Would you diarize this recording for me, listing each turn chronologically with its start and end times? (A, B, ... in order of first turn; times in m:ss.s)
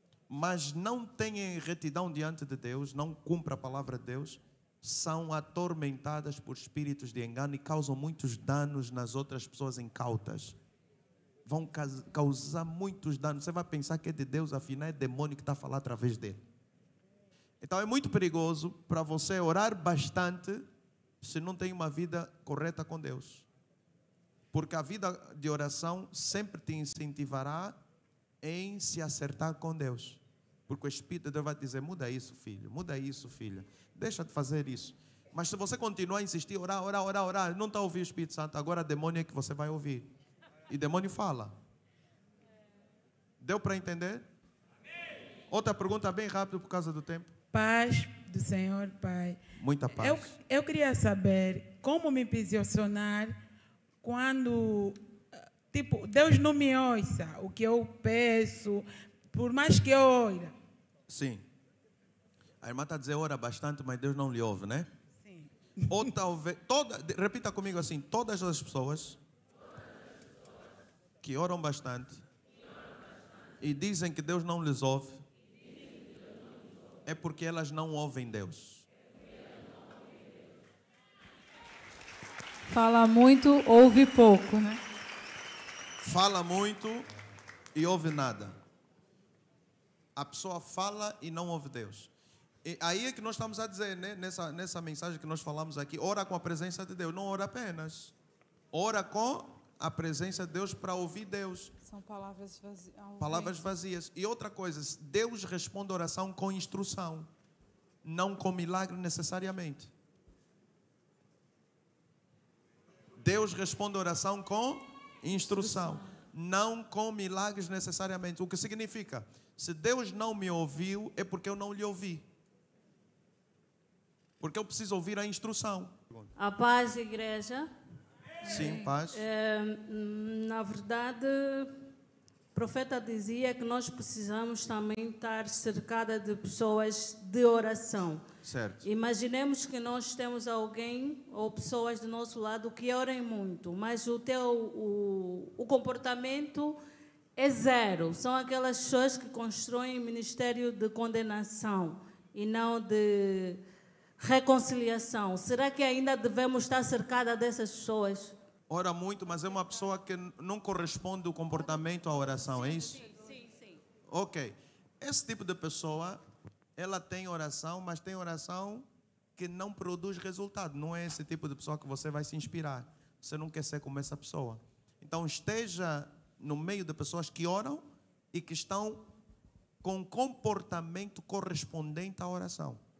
0:00.3-0:10.6 A
0:11.4-0:16.4 A
0:17.6-0:20.6 A
0:21.2-0:23.5 A
0:24.5-0:27.8 A
0:28.4-0:40.1 A
0:40.7-0:41.5 A
0:43.4-0:44.2 A
0:45.5-0:47.3 A
0:47.5-0:49.4 B
0:49.6-0:50.4 A
0:50.0-0:53.4 B
0:54.0-0:55.0 B
0:55.7-1:00.5 B
1:01.1-1:01.4 A
1:02.6-1:04.9 A
1:05.9-1:09.2 A
1:11.2-1:12.2 A
1:13.6-1:15.2 A
1:17.0-1:18.9 A
1:22.7-1:24.8 C
1:26.0-1:27.0 A
1:27.8-1:28.5 A
1:30.2-1:32.1 A
1:32.6-1:38.1 A
1:38.7-1:41.7 A
1:41.8-1:43.8 C
1:43.2-1:47.3 A
1:48.0-1:49.9 A
1:53.2-2:02.2 A
1:55.6-1:56.0 C
2:04.4-2:06.3 A
2:06.4-2:07.7 D
2:08.4-2:09.2 A
2:08.5-2:11.8 D
2:08.6-2:08.9 C
2:12.5-2:18.2 D
2:18.4-2:18.8 A
2:18.8-2:26.8 D
2:27.4-2:33.6 D
2:34.2-2:38.3 D
2:38.7-2:43.1 A
2:42.8-2:43.8 D
2:44.1-2:46.2 A
2:46.8-2:59.1 A
2:59.8-3:02.8 A